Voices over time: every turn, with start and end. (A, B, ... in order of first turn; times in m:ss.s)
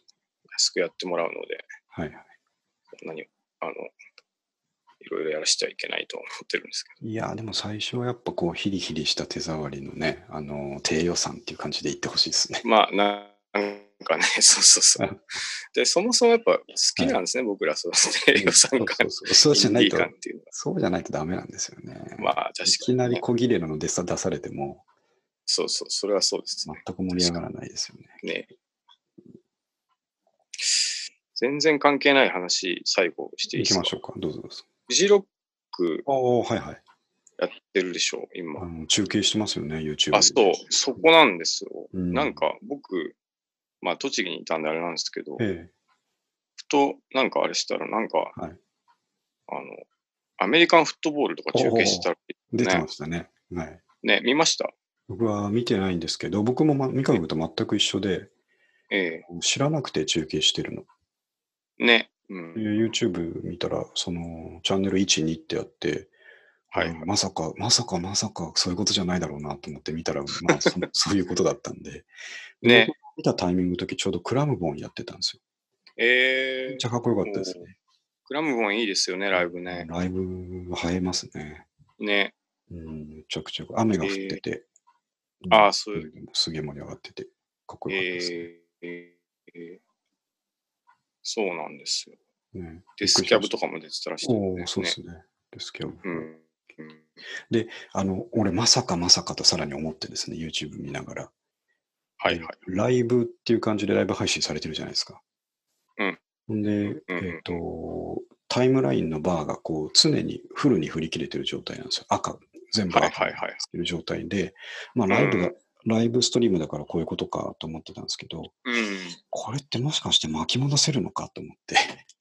0:00.5-0:01.6 A
0:01.9-0:02.2 B
0:03.0-0:03.9 A
0:05.0-0:06.9 A
0:07.0-0:12.6 B
0:12.6-0:15.1 A
0:15.7-0:20.5 A
0:18.3-0:24.8 B
0:22.2-0:23.2 A
0:25.5-0:27.4 A
0:26.6-0:28.2 B
0:28.2-0:28.5 A
0:30.6-0:33.9 A
0:33.5-0:34.6 B
0:34.9-0:36.0 A
0:36.0-0:36.8 B
0:37.4-0:38.7 A
0:38.6-0:40.6 B
0:40.1-0:43.2 A
0:41.9-0:42.4 B
0:43.8-0:45.4 A
0:45.4-0:45.7 B
0:46.6-0:48.3 A
0:49.5-0:49.8 A
0:50.4-0:52.8 A
0:51.5-0:53.8 B
0:54.0-0:54.7 A
0:55.1-0:58.3 B
0:58.9-0:59.2 A
0:59.3-1:00.9 B
1:01.8-1:02.8 A
1:02.5-1:06.1 B
1:06.7-1:07.1 A
1:06.7-1:12.1 B
1:12.6-1:15.4 B
1:12.6-1:12.9 A
1:16.0-1:17.6 A
1:16.7-1:17.7 B
1:18.3-1:19.9 A
1:19.3-1:21.7 B
1:22.0-1:22.3 A
1:22.7-1:24.6 B
1:24.0-1:24.4 A
1:25.4-1:28.4 B
1:25.5-1:26.1 A
1:27.9-1:29.8 A
1:31.2-1:32.2 A
1:32.5-1:33.5 B
1:33.0-1:35.0 A
1:34.2-1:36.2 B
1:36.0-1:37.1 A
1:37.5-1:41.3 B
1:42.2-1:42.6 A
1:42.2-1:45.2 B
1:46.5-1:58.5 B
1:46.8-1:47.6 A
1:52.9-1:53.6 A
1:55.1-1:55.5 A
1:58.6-1:59.2 A
1:59.3-2:02.0 B